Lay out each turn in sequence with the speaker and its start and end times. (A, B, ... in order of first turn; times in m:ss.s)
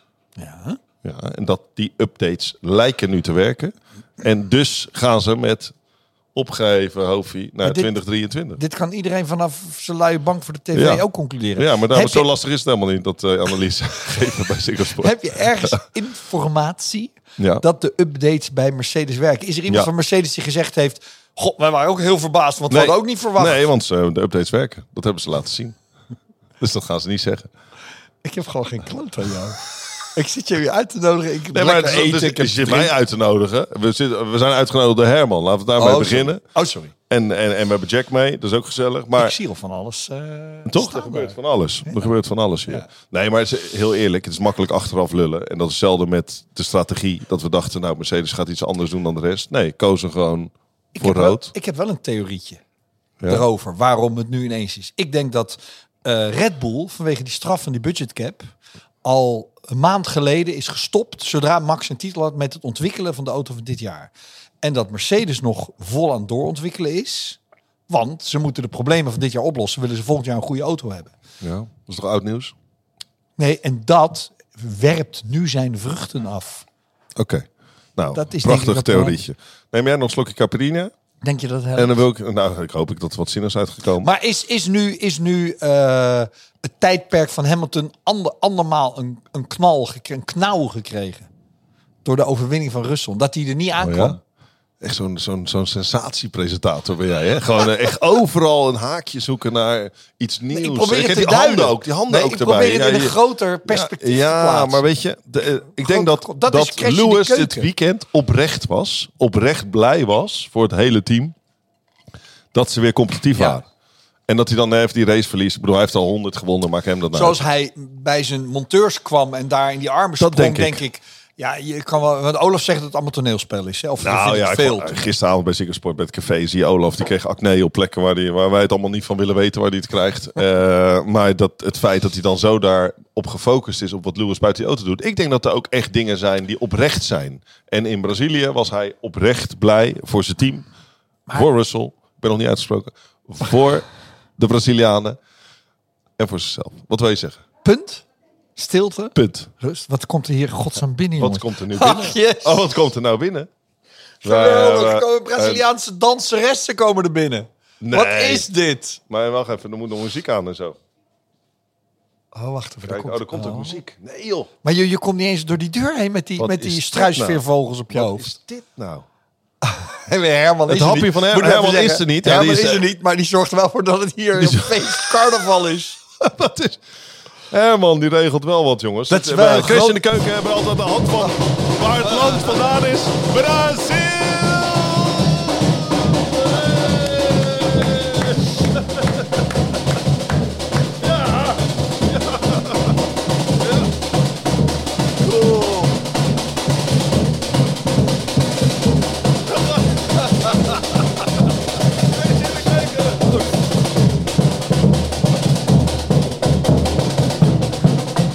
0:00.4-0:00.8 A
0:01.0-0:05.7 B
0:06.4-0:08.6 B
0:07.6-0:07.9 A
0:08.6-0:12.3 A
0:10.7-0:15.8 B
0:15.0-0:23.7 A
0:17.4-0:17.6 B
0:22.7-0:25.8 B
0:26.6-0:27.5 B
0:28.2-0:29.6 A
0:30.1-0:32.9 A
0:31.5-0:36.4 B
0:35.8-0:36.9 A
0:37.1-0:39.4 B
0:39.2-0:41.4 A
0:40.7-0:51.5 B
0:51.0-0:52.6 A
0:53.3-0:58.5 A
0:59.0-1:04.1 A
1:04.6-1:11.1 A
1:11.4-1:12.5 B
1:13.4-1:16.6 A
1:17.2-1:20.9 B
1:18.1-1:19.2 A
1:21.2-1:22.0 A
1:21.8-1:24.1 B
1:24.0-1:31.3 A
1:32.0-1:34.2 A
1:33.8-1:34.2 B
1:34.8-1:43.2 B
1:40.5-1:44.8 A
1:43.7-1:51.4 B
1:45.8-1:47.7 A
1:52.5-1:53.6 B
1:54.3-1:57.4 B
1:57.1-2:05.1 A
2:00.2-2:00.8 B
2:04.0-2:20.7 B
2:21.3-2:23.9 B
2:24.4-2:25.2 B
2:26.2-2:27.4 B
2:27.6-2:28.0 A
2:28.6-2:32.7 A
2:29.2-2:29.5 B
2:31.2-2:33.5 B
2:34.2-2:39.0 A
2:34.2-2:35.6 B
2:37.8-2:38.5 B
2:39.1-2:40.8 B
2:42.3-2:43.8 A
2:42.9-2:44.5 B
2:44.6-2:48.3 A
2:46.4-2:49.1 B
2:49.6-2:56.0 A
2:50.7-2:52.9 B
2:54.4-2:55.0 B
2:56.2-2:56.8 B
2:57.5-3:09.2 B
2:59.1-3:00.0 A
3:11.0-3:12.9 B
3:13.6-3:13.9 B
3:15.2-3:16.0 B
3:19.5-3:21.0 B
3:22.0-3:23.5 B